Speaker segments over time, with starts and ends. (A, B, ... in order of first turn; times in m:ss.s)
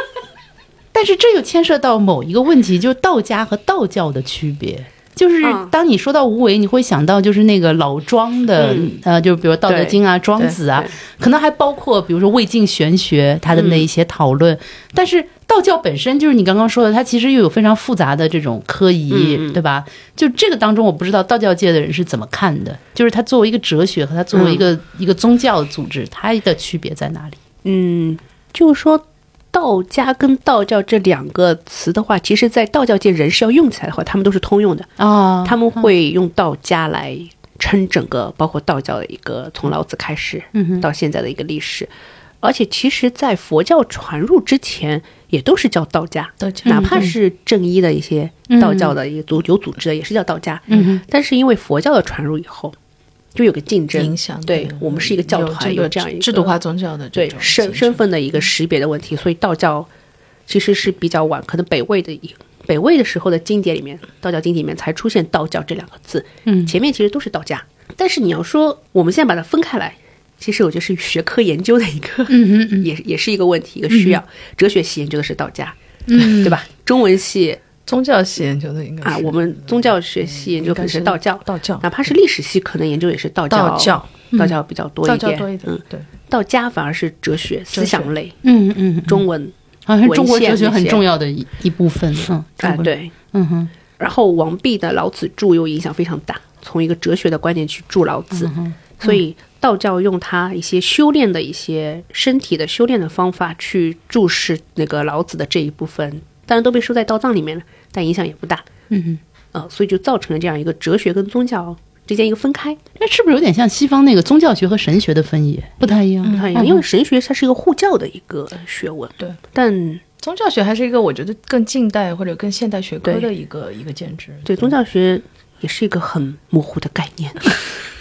0:00.9-0:27.4 A
0:05.4-0:05.7 B
0:08.6-0:09.0 B
0:09.7-0:10.0 B
0:13.5-0:13.9 B
0:19.1-0:19.6 B
0:24.3-0:24.6 B
0:27.6-0:41.9 B
0:35.0-0:35.9 A
0:40.5-0:40.9 A
0:42.4-0:52.8 B
0:46.4-0:46.9 C
0:46.7-0:47.1 A
0:48.5-0:49.0 A
0:50.7-0:51.0 A
0:53.4-0:56.6 B
0:54.0-0:58.0 C
0:57.1-0:59.9 B
1:00.5-1:17.6 B
1:06.5-1:06.8 A
1:12.3-1:12.9 A
1:13.9-1:14.2 A
1:16.1-1:16.6 A
1:17.8-1:19.9 C
1:19.0-1:28.4 B
1:20.6-1:22.1 C
1:23.5-1:24.5 C
1:25.0-1:26.0 C
1:27.7-1:28.1 C
1:28.4-1:29.3 A
1:29.1-1:29.5 B
1:29.9-1:33.7 A
1:30.0-1:31.0 B
1:32.6-1:33.1 B
1:34.0-1:48.7 B
1:38.3-1:39.2 A
1:48.9-1:49.2 A
1:49.5-1:52.8 B
1:53.0-1:56.8 A
1:56.2-1:56.6 C
1:56.3-2:00.0 B
2:00.2-2:04.7 C
2:04.4-2:07.8 B